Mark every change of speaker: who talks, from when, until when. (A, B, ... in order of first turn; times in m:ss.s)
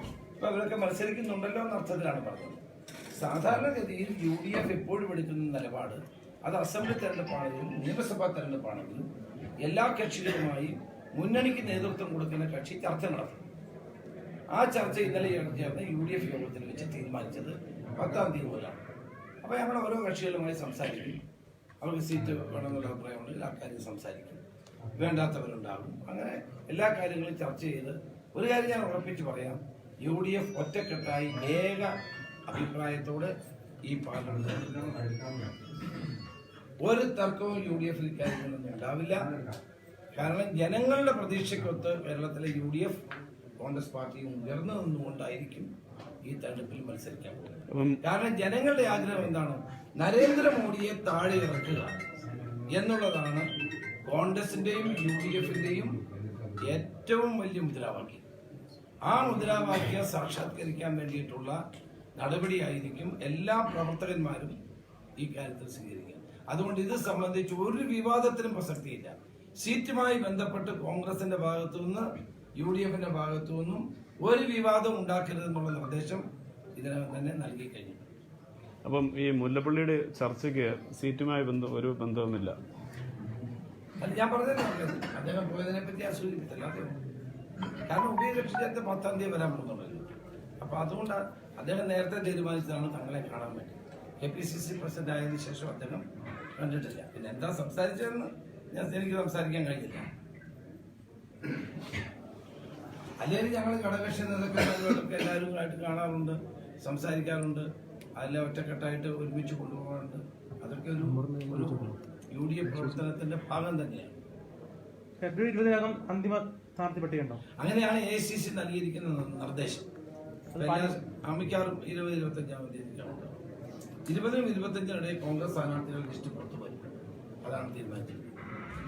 0:00.4-0:02.6 A
0:03.2-0:09.1 A
0:09.6-0:13.4 A
0:14.5-0:18.8 A
0:19.4-0:21.2 A
0:21.8-0:24.4 A
0:25.0-0:32.0 A
0:32.5-0:33.3 A
0:33.9-0:35.2 A
0:36.8-0:39.4 A
0:40.2-0:43.0 A
0:43.6-0:45.7 A
0:46.3-0:52.0 A
0:47.7-0:48.0 B
0:52.7-0:53.5 A
0:54.1-0:56.0 A
0:56.6-0:58.2 A
0:59.0-1:01.6 A
1:02.2-1:04.6 A
1:05.2-1:12.1 A
1:12.6-1:16.2 A
1:16.8-1:18.1 A
1:18.8-1:22.6 B
1:24.0-1:27.0 A
1:27.9-1:30.1 A
1:30.6-1:36.0 A
1:36.6-1:40.1 A
1:43.2-1:47.7 A
1:48.2-1:54.2 A
1:55.2-1:57.4 C
1:57.6-1:59.8 A
2:00.5-2:00.9 C
2:00.6-2:03.4 A
2:04.1-2:06.8 A
2:07.4-2:08.3 A